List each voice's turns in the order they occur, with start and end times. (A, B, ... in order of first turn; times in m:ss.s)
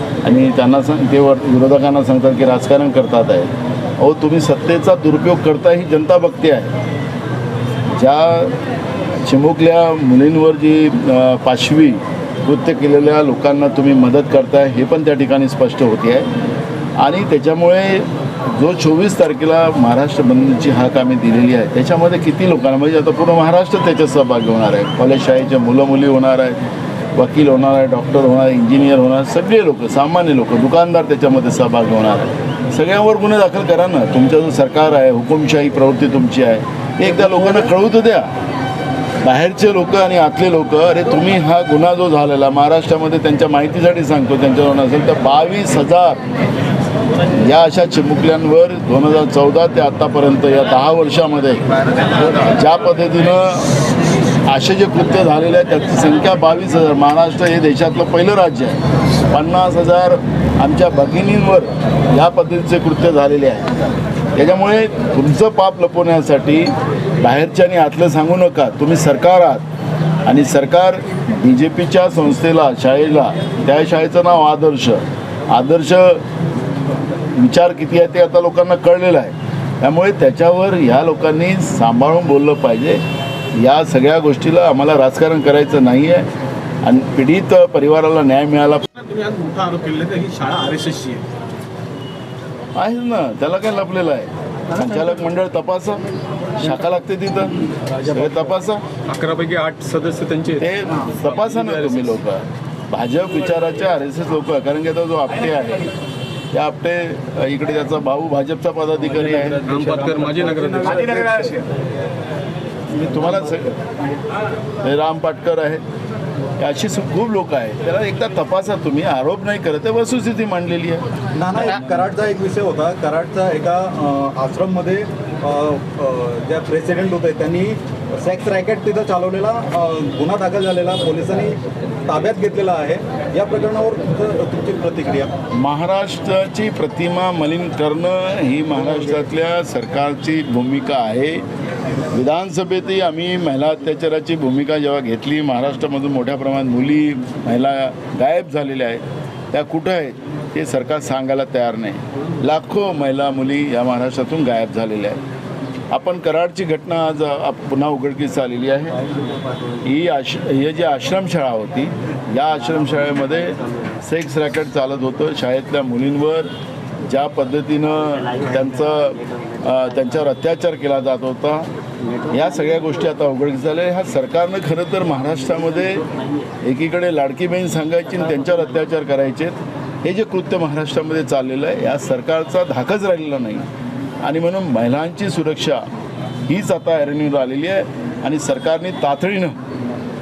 0:00.2-0:06.8 A
0:07.9-0:08.5 A
0:09.2-0:16.3 A
0:17.0-0:26.6 A
0:27.1-0:38.3 A
0:39.2-0:46.2 A
0:47.3-0:51.6 A
0:52.2-0:53.8 A
0:54.4-1:03.7 A
1:04.4-1:09.6 A
1:10.2-1:16.2 A
1:17.4-1:23.0 A
1:23.5-1:26.3 A
1:26.8-1:28.8 A
1:28.9-1:31.2 B
1:32.8-1:36.0 A
1:36.6-1:38.8 A
1:39.0-1:40.6 C
1:40.5-1:45.9 A
1:46.5-1:49.6 A
1:49.6-1:51.5 C
1:50.8-1:51.5 A
1:52.9-1:53.8 A
1:54.8-1:55.8 A
1:56.6-2:01.0 A
2:01.3-2:15.3 D
2:15.5-2:21.4 A
2:22.1-2:35.2 A
2:35.9-2:39.0 A
2:39.8-2:46.5 A
2:47.0-2:51.7 A
2:52.3-2:56.0 A
2:56.6-3:03.6 A
3:04.2-3:05.8 A
3:06.5-3:09.6 A